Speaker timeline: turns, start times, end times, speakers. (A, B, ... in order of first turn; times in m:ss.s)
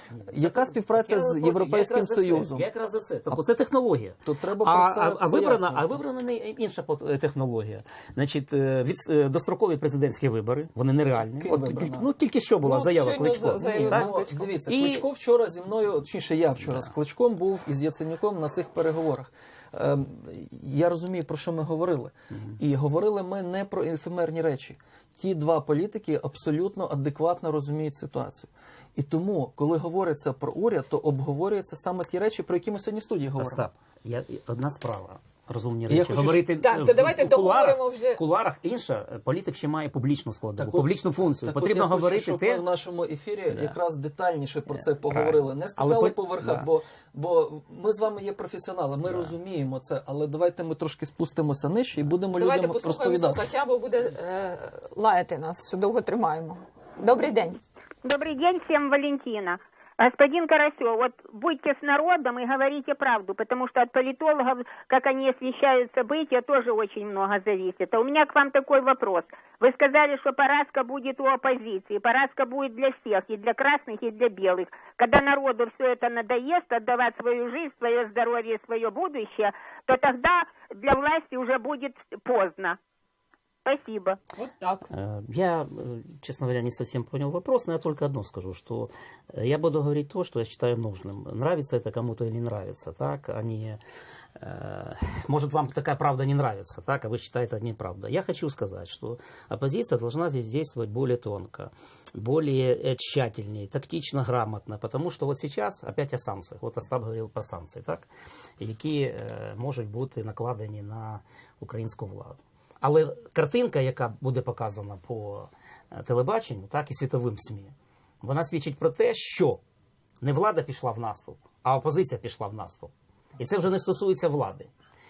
0:00.1-0:15.0 A
0:00.3-0:02.7 B
0:04.2-0:06.0 B
0:11.4-0:12.1 B
0:12.6-0:14.3 C
0:13.6-0:33.7 B
0:16.6-0:16.9 A
0:33.4-0:42.6 A
0:35.9-0:36.5 B
0:36.6-0:38.2 C
0:40.6-0:53.5 B
0:45.0-0:46.7 A
0:49.0-0:49.3 A
0:52.3-0:57.6 C
0:58.0-1:22.8 D
1:23.6-1:24.2 D
1:24.4-1:24.9 C
1:24.9-1:33.8 A
1:34.4-1:59.6 A
2:00.2-2:04.7 A